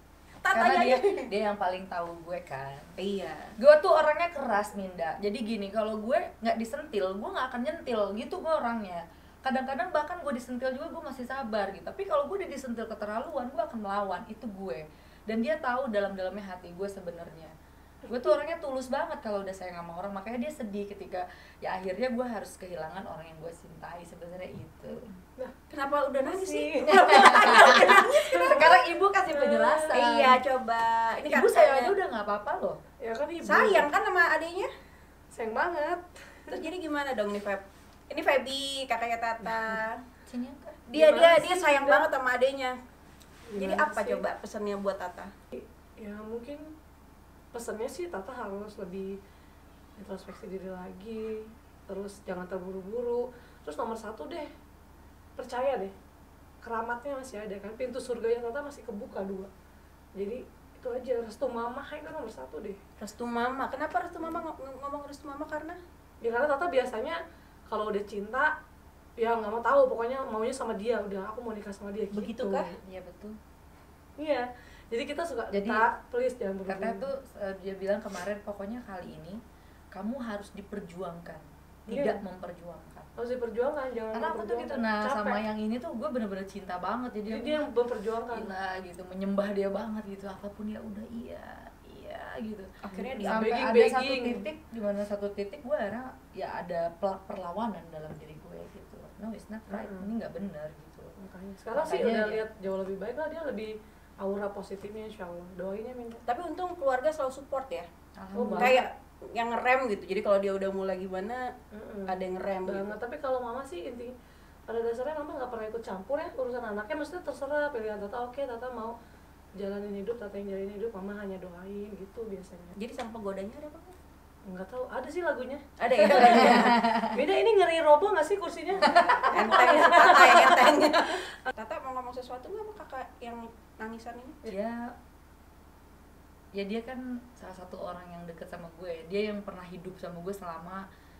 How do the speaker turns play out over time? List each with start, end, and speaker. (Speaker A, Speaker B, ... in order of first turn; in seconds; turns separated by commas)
Speaker A: 0.4-1.3, Speaker B: 0.5-2.9, Speaker A: 3.0-3.5, Speaker B: 3.6-17.5, Speaker B: 18.1-25.1, Speaker A: 25.7-28.7, Speaker C: 26.2-28.8, Speaker B: 27.0-30.4, Speaker C: 29.3-30.0, Speaker A: 29.9-31.9, Speaker B: 31.3-32.8, Speaker C: 33.0-33.9, Speaker A: 33.4-34.7, Speaker C: 35.3-36.6, Speaker A: 36.5-40.0, Speaker B: 40.2-40.8, Speaker A: 40.9-42.8, Speaker C: 40.9-42.0, Speaker C: 43.5-44.2, Speaker A: 43.5-45.3, Speaker C: 45.5-46.6, Speaker C: 47.5-49.2, Speaker C: 50.0-54.5, Speaker C: 55.4-55.9, Speaker C: 56.6-59.5, Speaker C: 60.2-62.8, Speaker A: 63.0-65.8, Speaker C: 66.2-68.5, Speaker C: 69.2-72.8, Speaker A: 72.1-72.7, Speaker B: 72.8-73.4, Speaker C: 74.2-77.0, Speaker B: 75.5-75.8, Speaker B: 76.7-79.4, Speaker B: 79.9-83.1, Speaker C: 81.9-82.2, Speaker C: 83.2-85.4, Speaker B: 84.1-87.7, Speaker C: 87.3-88.5, Speaker B: 88.3-92.7, Speaker A: 92.8-93.5, Speaker C: 92.9-94.5, Speaker B: 93.2-101.1, Speaker C: 99.7-100.1, Speaker C: 101.2-106.2, Speaker B: 101.7-102.4, Speaker A: 106.2-107.9, Speaker B: 108.2-108.8, Speaker C: 108.3-108.9, Speaker A: 108.5-111.5, Speaker C: 111.7-114.1, Speaker A: 112.1-112.9, Speaker C: 114.7-119.0, Speaker C: 119.6-122.7, Speaker A: 122.7-124.0, Speaker C: 124.5-130.7, Speaker A: 125.8-126.9, Speaker B: 126.2-127.1, Speaker A: 128.8-134.4, Speaker B: 128.8-129.4, Speaker B: 134.4-134.9, Speaker B: 136.5-140.8